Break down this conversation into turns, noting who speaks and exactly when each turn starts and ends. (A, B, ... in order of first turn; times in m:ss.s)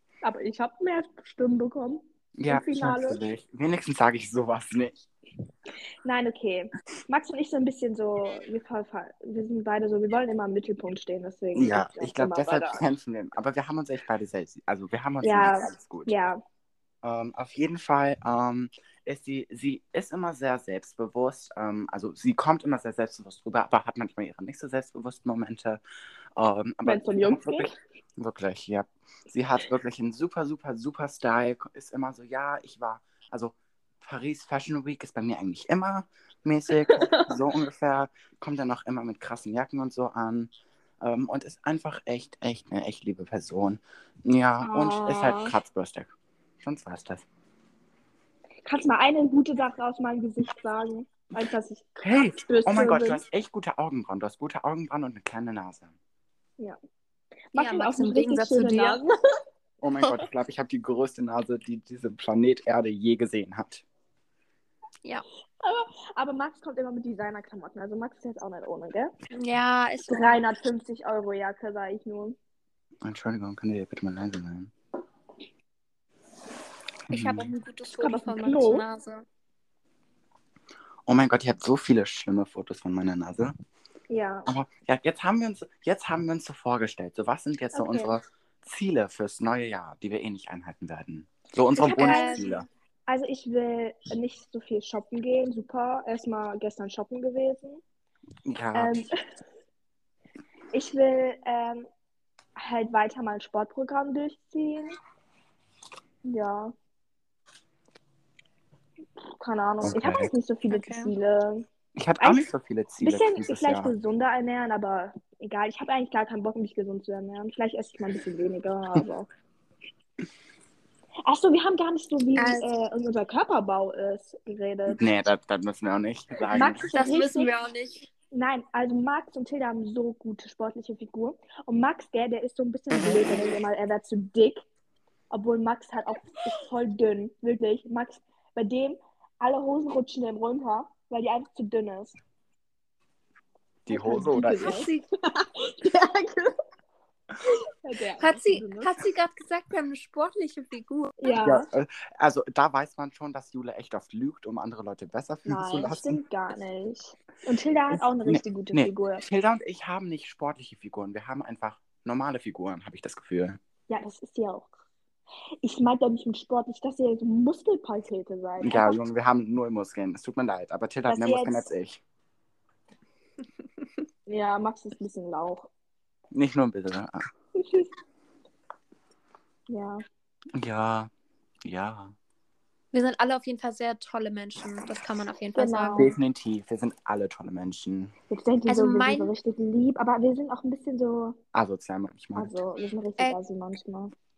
0:00.2-0:03.2 A
0:02.4-0:05.0 B
0:06.0-0:12.8 A
0:11.6-0:16.2 B
0:15.2-0:16.4 A
0:17.0-0:25.8 B
0:26.4-0:47.3 B
0:26.8-0:27.7 A
0:36.9-0:37.3 A
0:44.6-0:45.5 A
0:48.6-0:53.2 A
0:52.0-0:55.9 B
0:57.5-0:59.1 A
0:57.6-0:59.0 C
0:59.8-1:03.8 B
1:05.6-1:09.1 A
1:09.3-1:10.4 C
1:10.1-1:12.4 A
1:13.0-1:14.7 B
1:17.1-1:19.2 C
1:17.1-1:17.5 B
1:17.9-1:18.8 A
1:21.1-1:23.5 B
1:24.1-1:24.5 A
1:24.5-1:32.7 B
1:27.7-1:28.2 A
1:31.7-1:32.6 A
1:32.0-1:32.5 C
1:33.1-1:37.8 A
1:38.5-1:39.0 B
1:38.7-1:39.1 A
1:40.7-1:41.9 A
1:42.6-1:45.0 A
1:46.2-1:46.7 A
1:49.2-1:51.7 A
1:49.8-1:50.3 B
1:50.7-1:51.1 C
1:52.0-1:53.9 B
1:52.2-1:52.5 A
1:53.0-1:59.3 A
2:01.2-2:05.0 A
2:02.4-2:02.7 C
2:04.9-2:06.9 B
2:06.5-2:07.5 A
2:06.9-2:08.1 C
2:08.3-2:14.6 A
2:15.3-2:22.2 A
2:23.9-2:24.8 B
2:23.9-2:26.5 A
2:24.5-2:25.0 C
2:27.8-2:29.0 A
2:28.2-2:31.4 C
2:31.2-2:31.7 A
2:31.4-2:36.2 B
2:35.5-2:39.2 A
2:37.9-2:43.6 B
2:43.9-2:44.8 A
2:45.6-2:49.0 A
2:48.6-2:52.0 B
2:51.1-2:51.7 A
2:54.3-2:55.7 A
2:56.3-2:57.2 B
2:57.6-2:57.9 A
2:59.7-3:00.0 A
3:00.6-3:01.1 B
3:01.6-3:02.2 B
3:02.9-3:06.1 C
3:05.6-3:06.2 A
3:06.0-3:08.1 B
3:08.3-3:11.4 A
3:08.7-3:09.3 C
3:11.5-3:12.6 B
3:12.4-3:14.1 A